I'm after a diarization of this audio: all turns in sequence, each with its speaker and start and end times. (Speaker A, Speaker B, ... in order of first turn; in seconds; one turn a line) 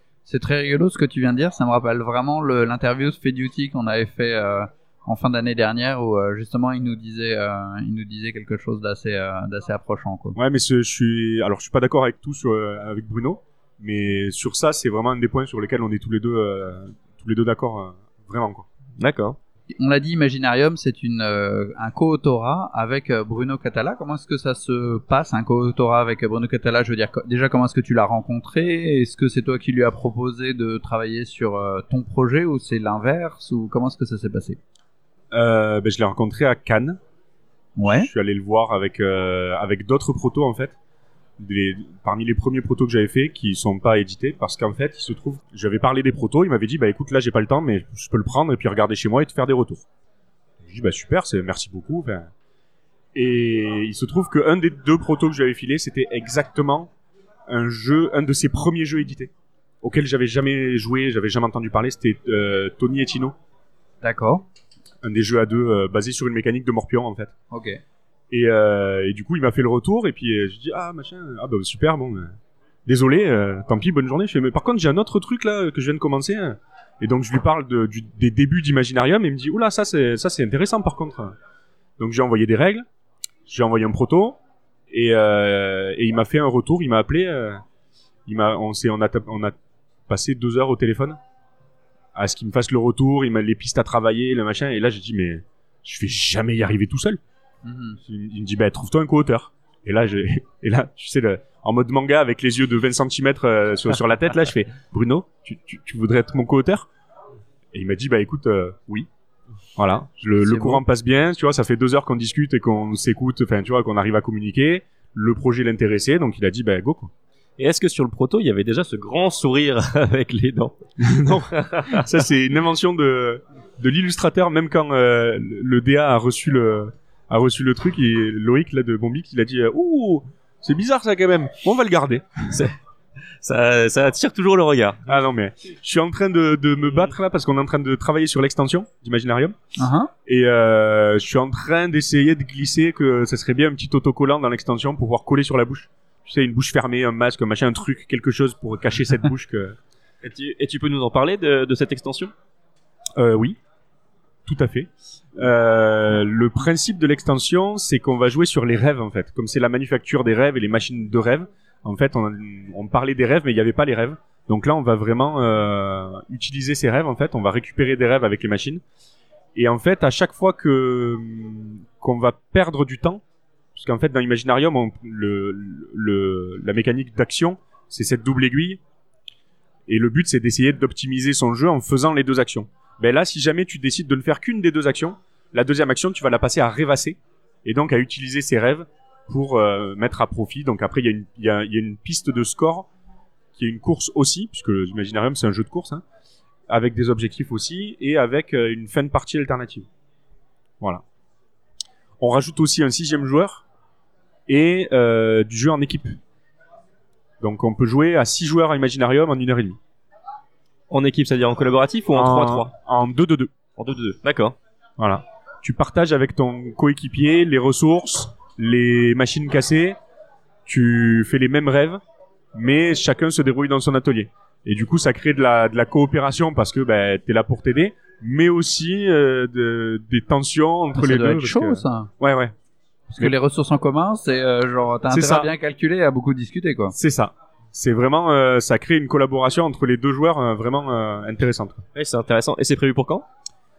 Speaker A: 0.2-10.4
Speaker B: 10.3-18.7
Speaker C: 19.0-19.4
Speaker A: 19.8-34.6
Speaker B: 35.3-37.0
Speaker A: 37.8-38.1
Speaker B: 37.8-40.8
Speaker B: 41.4-49.8
Speaker B: 50.6-52.3
Speaker B: 53.1-56.9
Speaker B: 57.5-59.3
Speaker B: 59.8-63.3
Speaker A: 64.0-64.4
Speaker B: 65.0-67.3
Speaker A: 67.5-67.8
Speaker B: 68.3-72.3
Speaker B: 72.8-81.3
Speaker B: 82.0-82.8
Speaker B: 83.5-84.4
Speaker B: 84.9-87.6
Speaker B: 88.2-89.5
Speaker B: 90.1-91.2
Speaker B: 92.1-97.2
Speaker A: 97.6-98.0
Speaker B: 98.0-106.9
Speaker B: 107.7-109.1
Speaker B: 109.8-117.1
Speaker A: 110.4-110.8
Speaker C: 117.6-120.8
Speaker B: 121.0-132.7
Speaker C: 121.3-122.0
Speaker C: 133.4-135.1
Speaker B: 135.1-139.6
Speaker A: 139.8-140.1
Speaker B: 140.2-149.8
Speaker C: 150.2-152.3
Speaker B: 153.2-153.6
Speaker B: 154.4-168.8
Speaker B: 169.5-173.2
Speaker B: 173.7-178.8
Speaker B: 179.9-192.9
Speaker B: 193.5-196.0
Speaker B: 196.7-199.9
Speaker B: 202.2-203.6
Speaker B: 204.5-206.2
Speaker B: 207.4-209.8
Speaker C: 210.9-212.7
Speaker B: 212.1-213.5
Speaker C: 213.8-214.6
Speaker B: 215.0-220.0
Speaker B: 220.7-222.0
Speaker B: 222.5-232.5
Speaker A: 230.9-232.1
Speaker A: 233.1-236.9
Speaker B: 235.1-235.5
Speaker B: 236.9-241.8
Speaker C: 241.9-243.2